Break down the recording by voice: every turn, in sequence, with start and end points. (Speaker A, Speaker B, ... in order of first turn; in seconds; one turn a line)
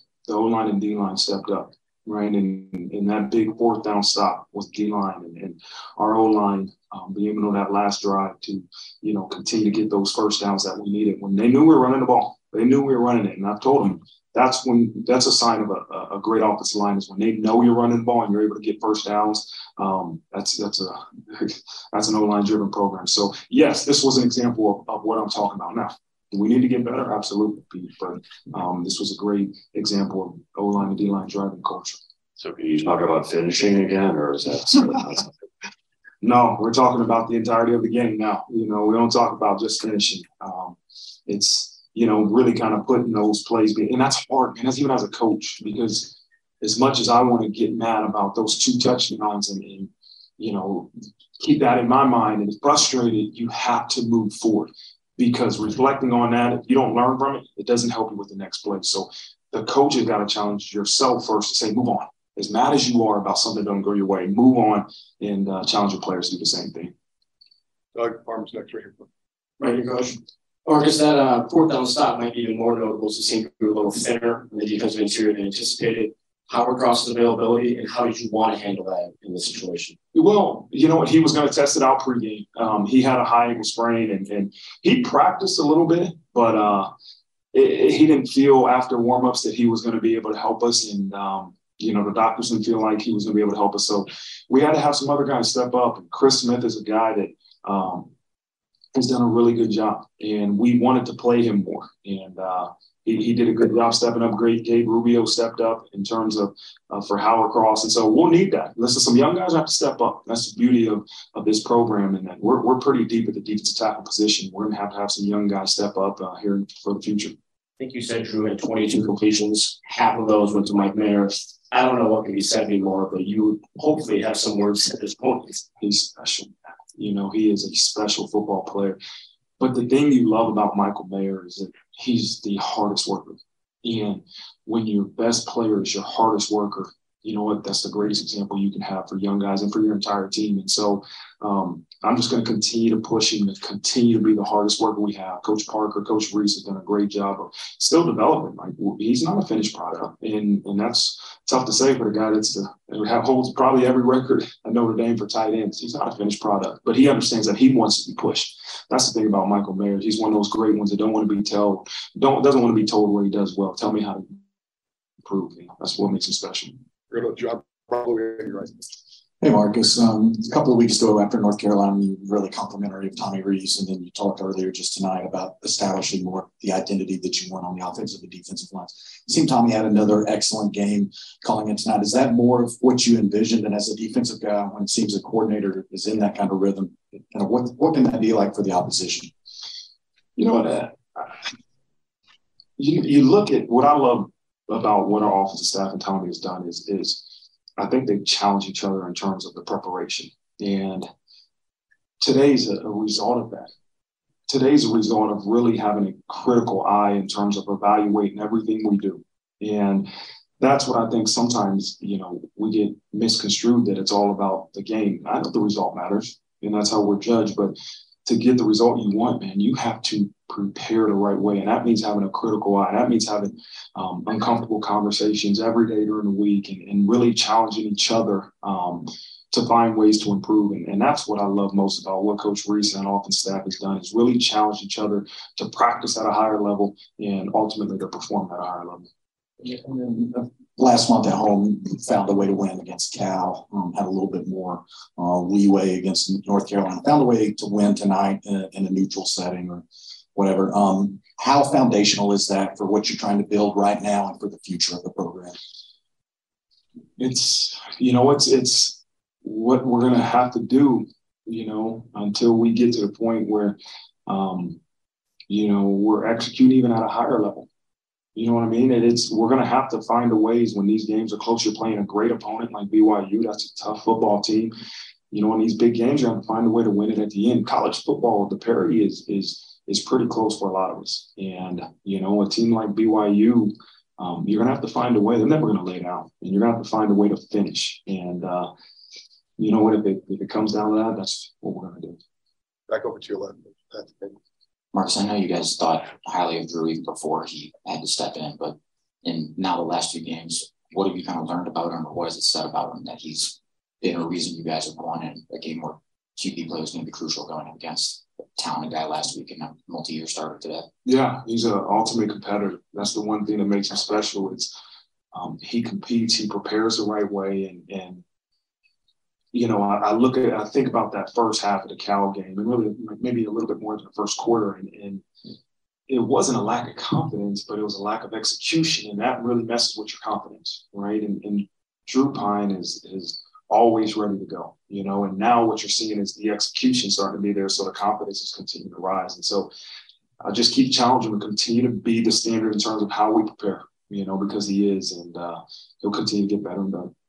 Speaker A: 0.2-32.0
Speaker B: 32.4-35.2
Speaker A: 36.2-66.9
Speaker C: 67.9-69.1
Speaker D: 69.6-80.0
Speaker A: 80.1-86.9
Speaker A: 87.5-98.1
Speaker A: 98.9-117.3
Speaker D: 117.8-125.7
Speaker A: 125.8-129.0
Speaker A: 129.6-164.4
Speaker A: 165.2-166.8
Speaker C: 167.1-168.8
Speaker E: 169.4-189.3
Speaker A: 190.3-191.4
Speaker A: 192.8-197.2
Speaker A: 197.8-201.1
Speaker A: 202.2-203.7
Speaker A: 204.5-210.1
Speaker A: 210.6-217.7
Speaker A: 218.2-239.1
Speaker E: 239.6-249.8
Speaker E: 250.3-255.5
Speaker A: 257.2-264.8
Speaker A: 265.5-267.7
Speaker A: 268.3-274.7
Speaker A: 275.3-288.7
Speaker A: 289.6-292.2
Speaker C: 292.9-294.4
Speaker F: 294.9-310.9
Speaker A: 311.1-314.7
Speaker A: 315.3-318.2
Speaker A: 319.5-325.2
Speaker A: 326.1-339.7
Speaker A: 340.4-347.1